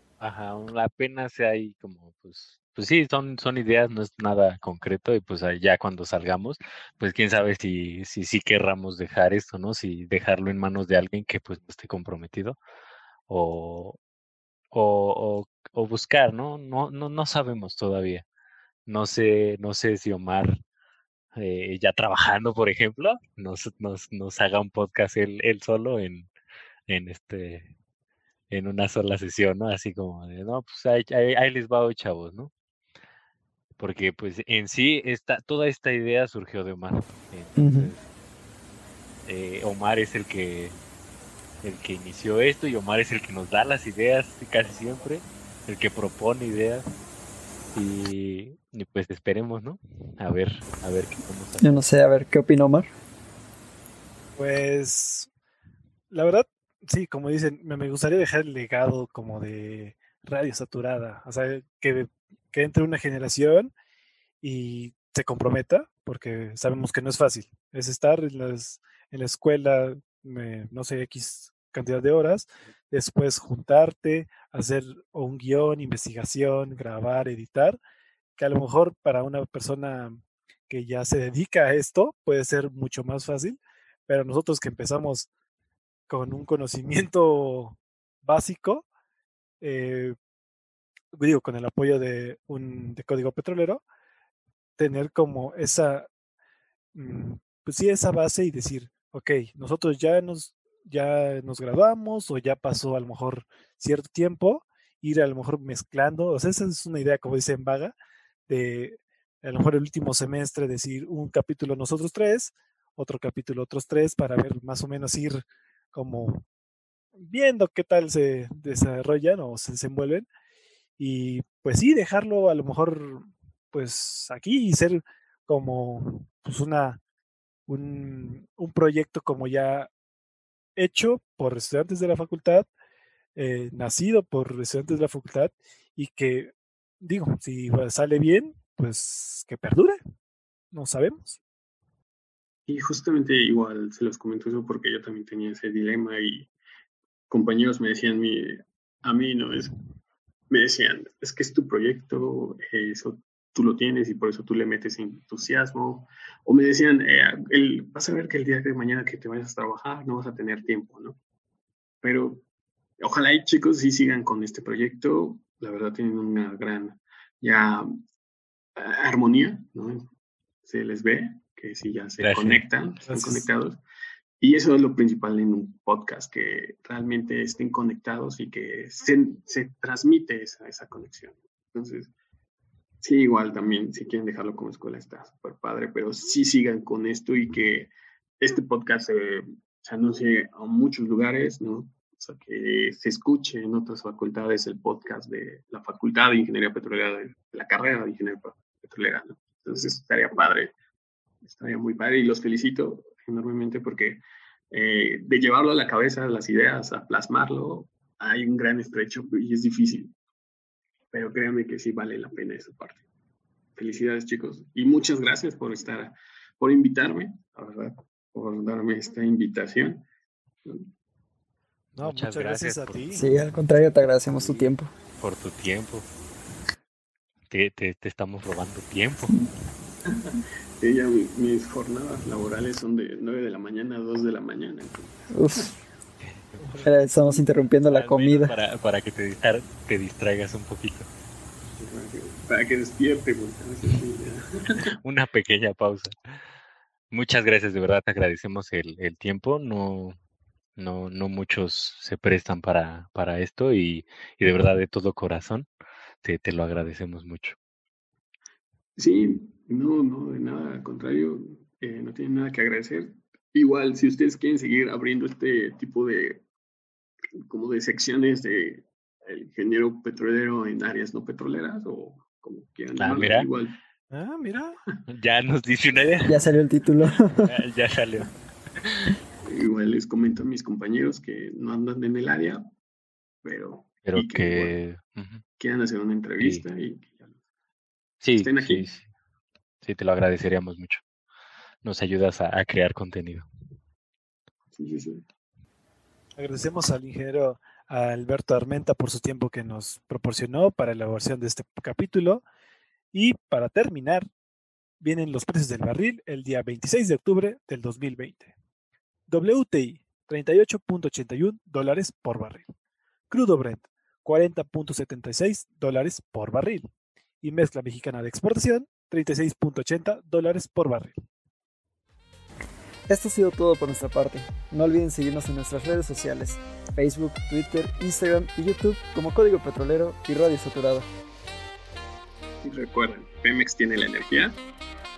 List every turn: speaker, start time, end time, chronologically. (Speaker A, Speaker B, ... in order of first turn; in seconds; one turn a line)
Speaker A: 0.2-12.6
Speaker A: 13.3-14.0
Speaker A: 14.7-18.2
Speaker A: 18.9-20.6
Speaker A: 21.4-26.3
Speaker A: 26.9-27.7
Speaker A: 28.5-32.5
Speaker A: 33.8-38.0
Speaker B: 37.6-37.9
Speaker A: 39.2-40.8
Speaker A: 41.6-46.9
Speaker A: 47.7-51.6
Speaker B: 51.6-52.9
Speaker C: 54.4-55.3
Speaker C: 56.1-63.7
Speaker C: 64.4-77.8
Speaker C: 78.4-85.3
Speaker C: 86.1-88.9
Speaker C: 89.6-90.2
Speaker C: 91.1-93.8
Speaker C: 94.8-96.1
Speaker C: 96.9-107.9
Speaker C: 108.5-116.4
Speaker C: 117.2-120.3
Speaker C: 121.0-127.0
Speaker C: 127.7-129.9
Speaker C: 130.8-132.7
Speaker C: 133.4-140.0
Speaker C: 140.7-141.4
Speaker D: 142.7-146.5
Speaker D: 147.3-149.8
Speaker D: 150.5-161.2
Speaker D: 162.0-162.4
Speaker D: 163.0-167.9
Speaker D: 168.8-170.1
Speaker D: 170.7-173.8
Speaker A: 172.2-172.6
Speaker C: 173.1-173.5
Speaker D: 174.4-182.1
Speaker D: 183.0-200.7
Speaker D: 201.4-210.1
Speaker D: 211.1-213.1
Speaker D: 213.8-220.1
Speaker C: 222.0-223.2
Speaker A: 222.0-226.1
Speaker B: 223.1-224.9
Speaker A: 227.5-229.4
Speaker D: 230.1-235.7
Speaker B: 235.3-235.7
Speaker A: 236.2-236.6
Speaker C: 236.6-236.9
Speaker B: 236.8-238.5
Speaker A: 237.9-241.1
Speaker D: 241.8-244.9
Speaker A: 244.9-246.2
Speaker A: 247.1-250.2
Speaker A: 250.8-255.7
Speaker A: 256.2-257.6
Speaker D: 259.0-266.4
Speaker D: 267.5-273.8
Speaker A: 273.0-273.5
Speaker C: 274.1-274.8
Speaker A: 275.1-276.4
Speaker B: 276.2-277.5
Speaker A: 277.4-279.2
Speaker D: 279.4-282.6
Speaker D: 283.4-284.8
Speaker A: 284.1-285.4
Speaker D: 285.6-287.4
Speaker A: 286.4-286.6
Speaker A: 288.2-289.0
Speaker D: 288.4-288.9
Speaker A: 289.8-291.0
Speaker A: 291.8-293.5
Speaker D: 294.7-295.2
Speaker C: 296.4-302.4
Speaker C: 303.1-304.3
Speaker C: 305.0-308.5
Speaker C: 309.3-312.7
Speaker C: 313.3-316.9
Speaker C: 317.4-321.2
Speaker B: 323.1-331.1
Speaker D: 332.6-334.6